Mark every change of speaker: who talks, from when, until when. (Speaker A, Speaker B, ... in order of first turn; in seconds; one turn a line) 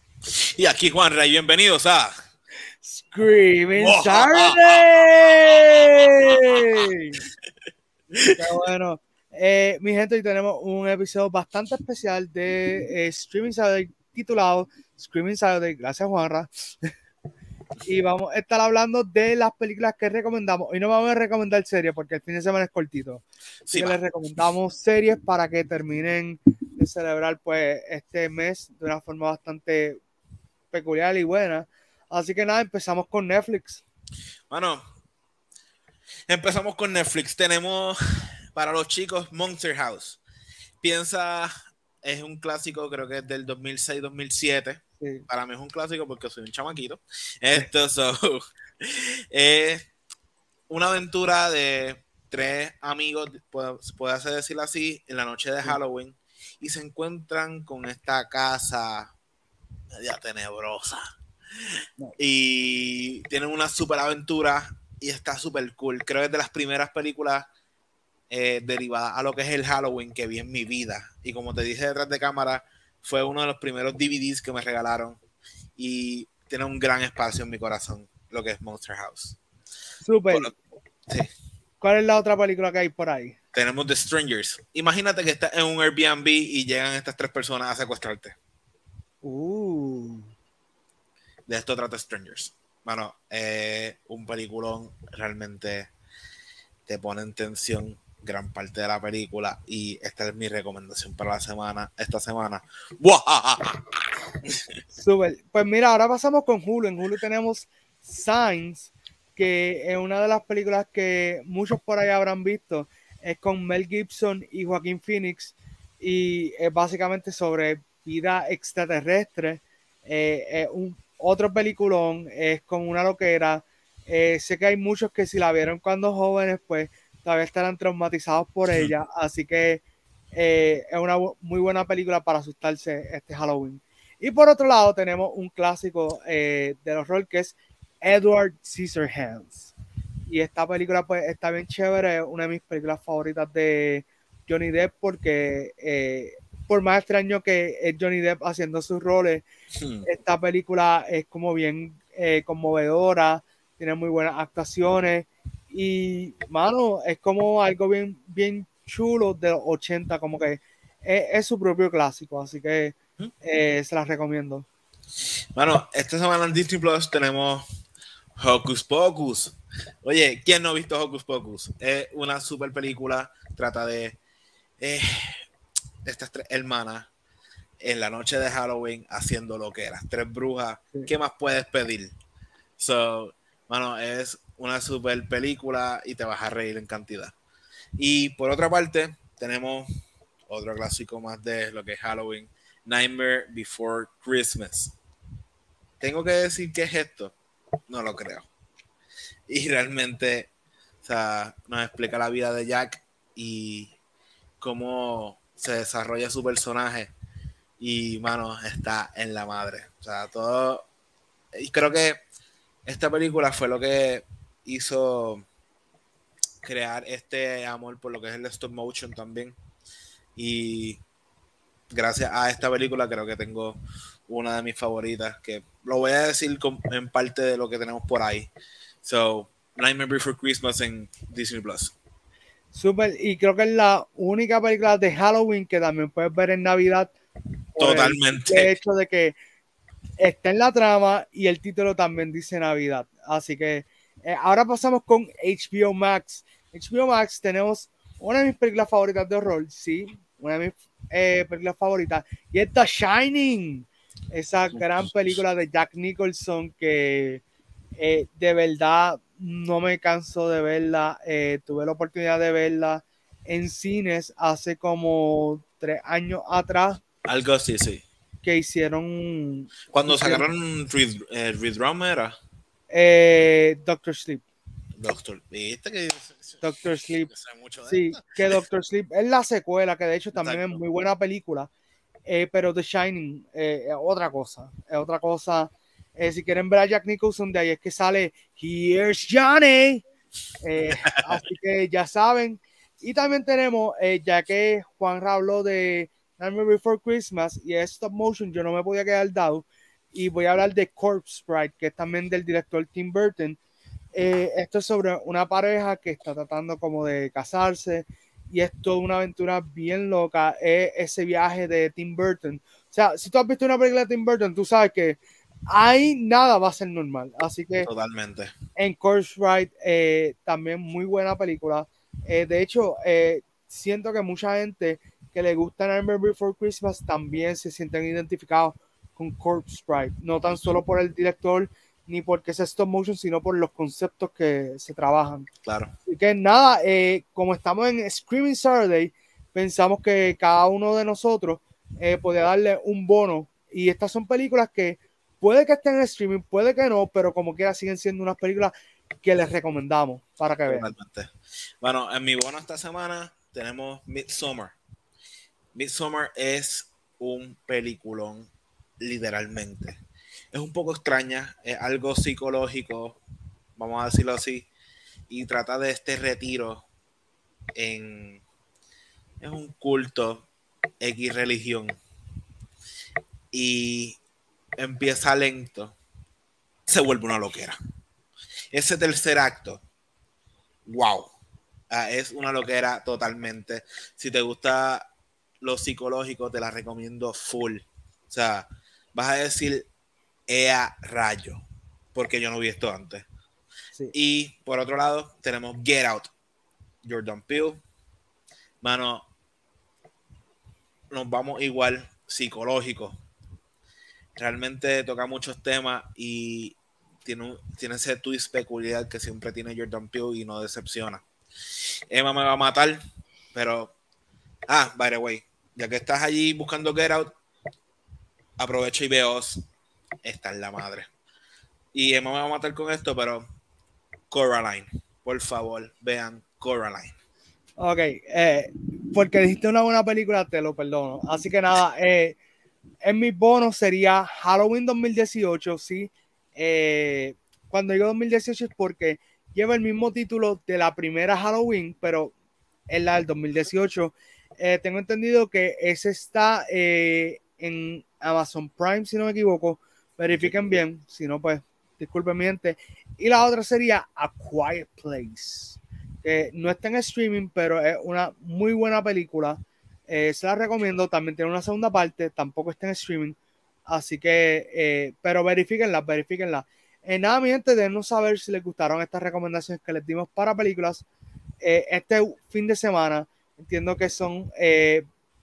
Speaker A: 0.3-2.1
Speaker B: 2.8-7.2
Speaker A: 3.8-4.8
Speaker A: 6.3-6.8
Speaker B: 8.3-16.9
Speaker B: 17.8-23.2
Speaker A: 23.6-24.0
Speaker B: 23.7-30.0
Speaker B: 30.7-33.8
Speaker A: 34.5-34.8
Speaker A: 36.3-38.0
Speaker A: 38.5-40.2
Speaker A: 40.8-41.5
Speaker A: 42.0-49.8
Speaker B: 45.0-45.2
Speaker A: 50.7-59.1
Speaker A: 60.0-61.0
Speaker A: 62.2-67.5
Speaker A: 68.3-75.2
Speaker A: 75.8-79.4
Speaker B: 80.0-80.5
Speaker A: 80.3-81.3
Speaker B: 81.8-83.3
Speaker A: 83.5-88.3
Speaker B: 89.2-90.3
Speaker A: 91.5-95.9
Speaker A: 96.9-103.8
Speaker B: 104.9-129.8
Speaker B: 130.3-139.7
Speaker B: 140.3-149.4
Speaker A: 149.8-150.1
Speaker B: 150.0-164.7
Speaker A: 165.6-167.6
Speaker A: 168.4-174.2
Speaker A: 174.8-175.4
Speaker A: 176.0-177.1
Speaker A: 177.8-182.1
Speaker A: 182.8-187.3
Speaker A: 188.0-189.8
Speaker A: 190.5-194.9
Speaker A: 196.0-197.3
Speaker A: 197.9-198.5
Speaker A: 199.5-200.5
Speaker A: 201.0-203.9
Speaker A: 204.6-207.1
Speaker A: 207.8-210.8
Speaker A: 211.5-212.2
Speaker A: 212.8-215.4
Speaker A: 216.6-219.5
Speaker A: 220.3-221.0
Speaker A: 221.9-228.5
Speaker A: 229.0-231.9
Speaker B: 232.7-237.1
Speaker B: 237.7-239.3
Speaker A: 237.8-238.8
Speaker B: 240.2-257.4
Speaker A: 254.7-255.3
Speaker B: 258.0-267.0
Speaker A: 267.2-268.0
Speaker B: 268.4-270.4
Speaker A: 269.9-272.4
Speaker B: 272.9-274.4
Speaker A: 275.0-276.7
Speaker B: 276.6-277.3
Speaker A: 277.2-278.6
Speaker B: 277.8-281.7
Speaker A: 280.4-280.8
Speaker B: 282.3-290.0
Speaker B: 290.6-303.6
Speaker A: 291.0-291.2
Speaker B: 304.1-315.2
Speaker B: 315.7-317.9
Speaker A: 317.8-318.5
Speaker B: 318.8-335.5
Speaker A: 335.6-335.9
Speaker B: 336.1-348.7
Speaker B: 349.2-350.9
Speaker A: 350.7-351.3
Speaker A: 351.8-354.7
Speaker A: 355.7-358.5
Speaker A: 359.0-359.9
Speaker A: 360.5-363.2
Speaker A: 363.8-364.7
Speaker A: 365.3-366.8
Speaker A: 367.8-368.4
Speaker A: 369.4-370.5
Speaker A: 371.0-372.0
Speaker A: 373.5-374.2
Speaker A: 374.8-375.9
Speaker A: 376.9-377.8
Speaker A: 378.7-379.8
Speaker A: 380.9-381.3
Speaker A: 381.9-385.1
Speaker A: 385.6-389.9
Speaker A: 390.5-391.6
Speaker A: 392.1-393.2
Speaker A: 394.1-396.3
Speaker A: 397.0-397.8
Speaker A: 398.8-399.2
Speaker A: 401.1-403.1
Speaker A: 404.4-411.2
Speaker A: 412.1-413.0
Speaker A: 413.5-413.9
Speaker A: 414.7-417.3
Speaker A: 418.6-419.6
Speaker A: 420.2-421.1
Speaker A: 421.9-423.4
Speaker A: 424.3-427.1
Speaker B: 427.8-432.4
Speaker B: 433.0-442.3
Speaker B: 442.9-463.4
Speaker A: 450.3-450.6
Speaker B: 463.9-471.1
Speaker B: 471.6-475.0